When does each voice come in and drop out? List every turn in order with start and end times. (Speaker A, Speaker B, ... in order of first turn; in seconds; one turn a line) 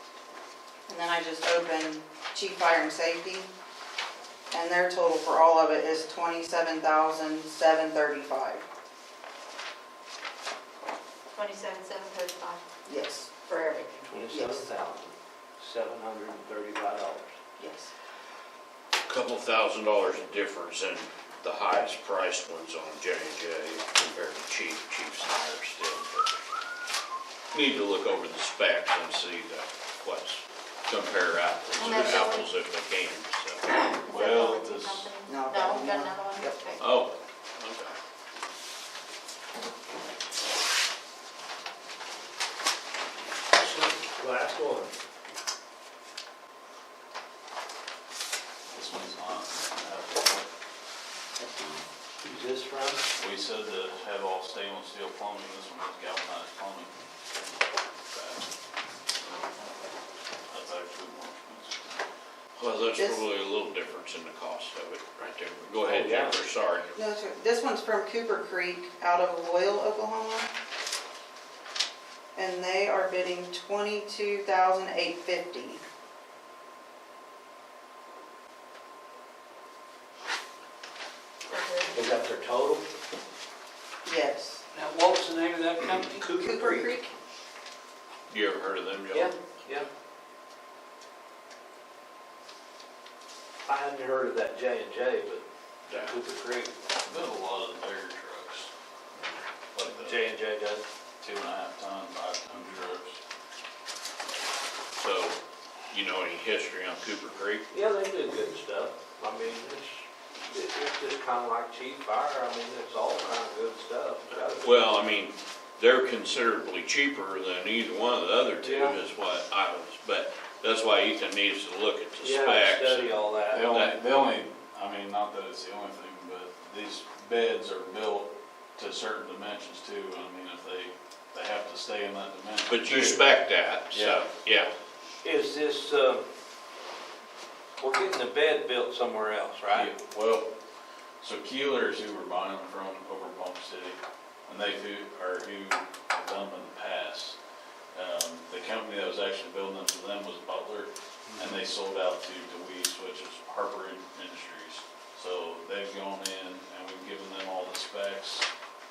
Speaker A: 0.9-3.5
Speaker A: 4.5-8.6
Speaker B: 11.3-12.6
Speaker A: 12.8-13.3
Speaker B: 13.5-14.0
Speaker C: 14.1-17.3
Speaker A: 14.3-14.7
Speaker A: 17.6-17.9
Speaker D: 19.0-26.3
Speaker D: 27.5-33.8
Speaker B: 31.8-32.5
Speaker E: 31.8-32.2
Speaker B: 33.9-36.8
Speaker E: 34.1-35.1
Speaker A: 35.3-36.5
Speaker D: 36.8-38.0
Speaker C: 43.6-44.9
Speaker E: 48.7-50.5
Speaker A: 51.4-51.8
Speaker C: 52.2-53.0
Speaker E: 53.1-56.9
Speaker E: 58.1-58.5
Speaker E: 60.5-62.0
Speaker D: 62.5-66.9
Speaker A: 63.0-63.2
Speaker C: 65.8-66.4
Speaker A: 66.9-70.5
Speaker A: 72.3-75.8
Speaker B: 81.5-81.8
Speaker C: 81.9-82.9
Speaker A: 84.0-84.6
Speaker C: 84.7-87.1
Speaker A: 86.2-87.1
Speaker D: 88.3-89.3
Speaker C: 89.1-89.9
Speaker C: 93.6-96.7
Speaker D: 95.9-96.1
Speaker E: 97.0-98.7
Speaker E: 99.7-100.3
Speaker C: 99.8-100.8
Speaker E: 101.2-103.2
Speaker D: 104.9-105.4
Speaker D: 105.9-107.7
Speaker C: 107.7-115.0
Speaker D: 114.3-124.0
Speaker C: 118.6-119.0
Speaker C: 122.2-123.7
Speaker E: 123.5-133.3
Speaker D: 132.7-134.7
Speaker E: 133.9-134.2
Speaker C: 135.2-136.2
Speaker C: 137.8-139.9
Speaker E: 139.7-140.5
Speaker E: 141.2-147.4
Speaker E: 147.9-158.5